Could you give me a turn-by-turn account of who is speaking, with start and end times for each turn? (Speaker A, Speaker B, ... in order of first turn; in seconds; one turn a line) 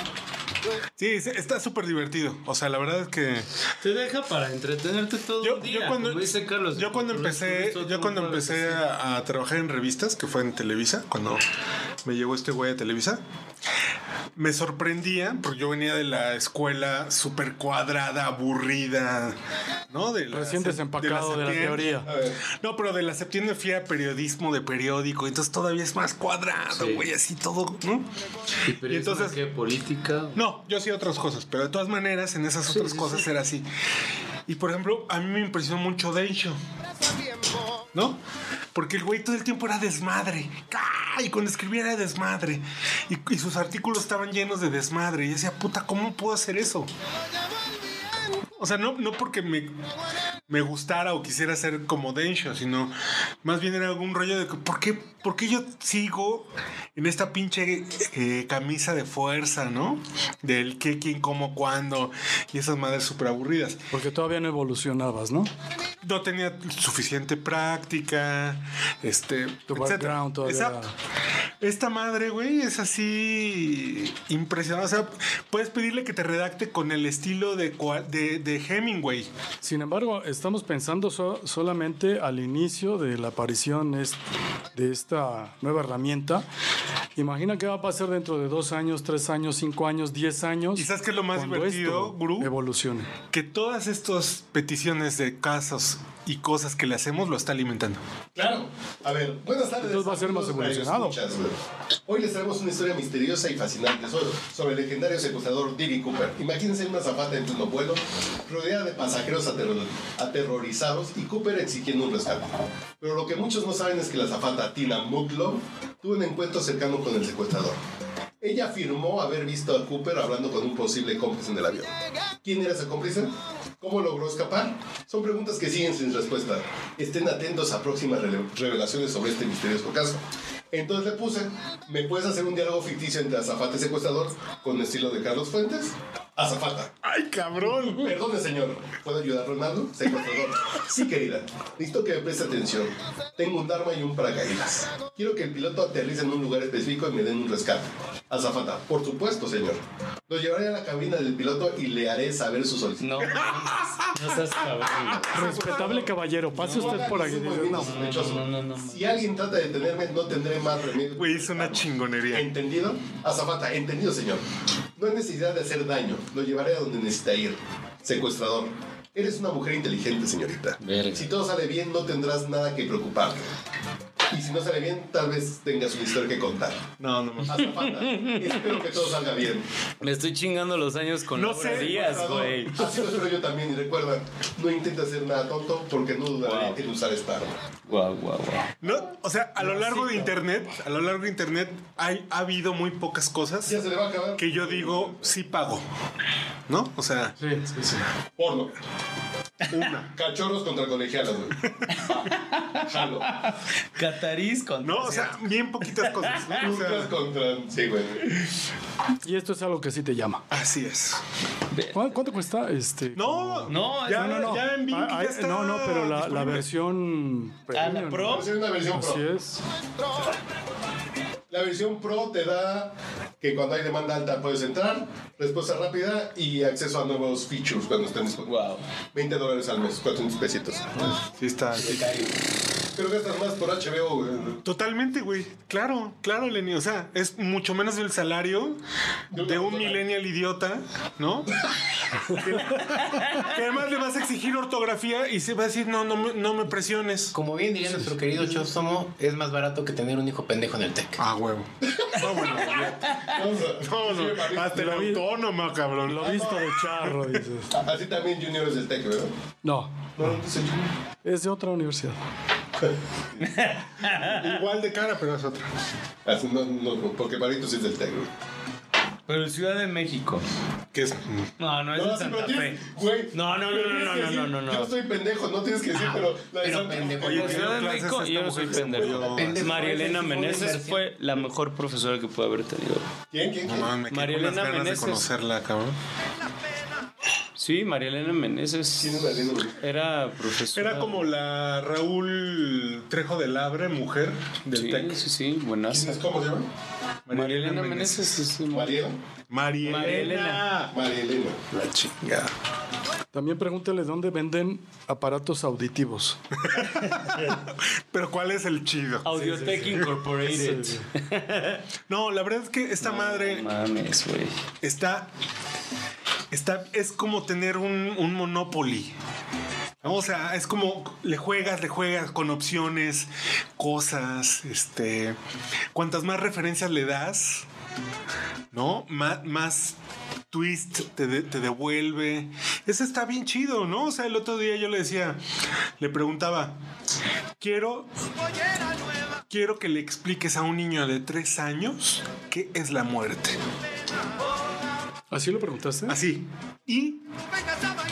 Speaker A: 1.0-3.5
Speaker B: 3.8-8.8
Speaker A: 5.4-11.4
Speaker A: 12.0-13.2
Speaker A: 14.3-19.4
Speaker A: 19.9-28.1
Speaker C: 20.3-22.1
Speaker D: 22.0-22.4
Speaker B: 26.8-27.0
Speaker B: 28.7-30.4
Speaker A: 28.8-29.4
Speaker A: 30.3-33.7
Speaker B: 32.7-33.2
Speaker A: 34.5-36.6
Speaker A: 37.9-38.2
Speaker A: 38.7-46.9
Speaker A: 48.6-49.7
Speaker A: 50.5-63.9
Speaker C: 63.9-65.5
Speaker A: 66.0-70.8
Speaker C: 69.7-70.9
Speaker A: 71.6-79.3
Speaker C: 79.6-84.2
Speaker C: 84.8-86.5
Speaker C: 87.2-93.1
Speaker A: 90.8-92.5
Speaker A: 93.3-98.0
Speaker D: 98.3-101.5
Speaker C: 99.8-101.2
Speaker D: 102.1-117.8
Speaker D: 118.4-136.9
Speaker A: 137.0-138.2
Speaker D: 137.7-153.4
Speaker B: 153.0-155.7
Speaker A: 153.6-154.1
Speaker C: 155.3-158.0
Speaker D: 155.4-164.4
Speaker A: 156.5-157.1
Speaker B: 157.8-159.2
Speaker A: 161.1-162.5
Speaker D: 165.0-173.5
Speaker B: 170.8-171.3
Speaker D: 174.3-176.8
Speaker A: 177.0-177.6
Speaker D: 177.4-179.6
Speaker B: 177.6-178.4
Speaker B: 180.0-183.0
Speaker A: 181.3-182.4
Speaker D: 181.7-187.5
Speaker B: 186.4-186.8
Speaker B: 187.9-188.8
Speaker A: 188.8-193.8
Speaker C: 189.8-190.2
Speaker D: 193.6-195.3
Speaker A: 194.3-195.8
Speaker A: 196.7-197.4
Speaker C: 197.4-198.0
Speaker D: 198.4-198.7
Speaker A: 199.7-200.1
Speaker D: 200.1-202.3
Speaker B: 202.0-202.7
Speaker D: 202.8-203.4
Speaker B: 203.3-205.4
Speaker A: 204.8-207.1
Speaker B: 206.0-206.5
Speaker D: 206.5-208.3
Speaker C: 209.2-210.4
Speaker A: 210.5-211.2
Speaker B: 211.7-212.0
Speaker C: 211.9-219.6
Speaker A: 213.1-216.7
Speaker B: 213.7-214.6
Speaker B: 217.7-218.5
Speaker D: 218.3-219.2
Speaker D: 221.5-228.5
Speaker B: 228.4-228.8
Speaker D: 229.1-231.1
Speaker A: 231.3-232.1
Speaker E: 231.8-232.3
Speaker D: 232.9-234.6
Speaker A: 234.6-238.8
Speaker D: 239.3-240.0
Speaker A: 239.3-241.6
Speaker A: 242.3-247.3
Speaker E: 247.3-251.1
Speaker A: 251.2-253.1
Speaker D: 251.8-254.9
Speaker A: 253.8-257.4
Speaker C: 254.7-255.2
Speaker C: 256.0-257.7
Speaker D: 257.7-259.3
Speaker C: 259.6-260.1
Speaker D: 260.2-260.9
Speaker C: 261.2-262.2
Speaker D: 262.8-263.5
Speaker B: 263.4-264.4
Speaker A: 264.2-265.7
Speaker D: 266.2-268.3
Speaker B: 269.3-270.4
Speaker A: 270.9-271.5
Speaker B: 271.6-274.9
Speaker D: 271.9-277.6
Speaker E: 275.9-277.6
Speaker A: 277.2-279.8
Speaker B: 277.4-283.1
Speaker E: 278.9-281.0
Speaker D: 283.3-283.9
Speaker A: 283.6-286.0
Speaker B: 284.1-285.3
Speaker B: 287.6-291.2
Speaker D: 289.0-289.8
Speaker A: 290.7-295.3
Speaker B: 294.7-296.2
Speaker D: 295.9-296.7
Speaker A: 297.3-298.5
Speaker B: 297.3-299.0
Speaker D: 298.7-299.2
Speaker A: 299.5-300.9
Speaker B: 299.8-300.7
Speaker D: 300.9-301.6
Speaker A: 301.7-302.5
Speaker C: 303.3-306.4
Speaker A: 306.6-310.1
Speaker B: 309.2-311.8
Speaker C: 310.5-311.0
Speaker A: 312.1-313.7
Speaker B: 313.0-314.6
Speaker A: 314.8-315.3
Speaker A: 316.5-319.1
Speaker A: 320.0-325.4
Speaker A: 325.9-327.7
Speaker A: 328.7-330.0
Speaker A: 330.5-335.4
Speaker A: 336.0-336.8
Speaker A: 337.6-338.1
Speaker A: 339.5-343.6
Speaker C: 345.3-346.2
Speaker A: 346.1-347.2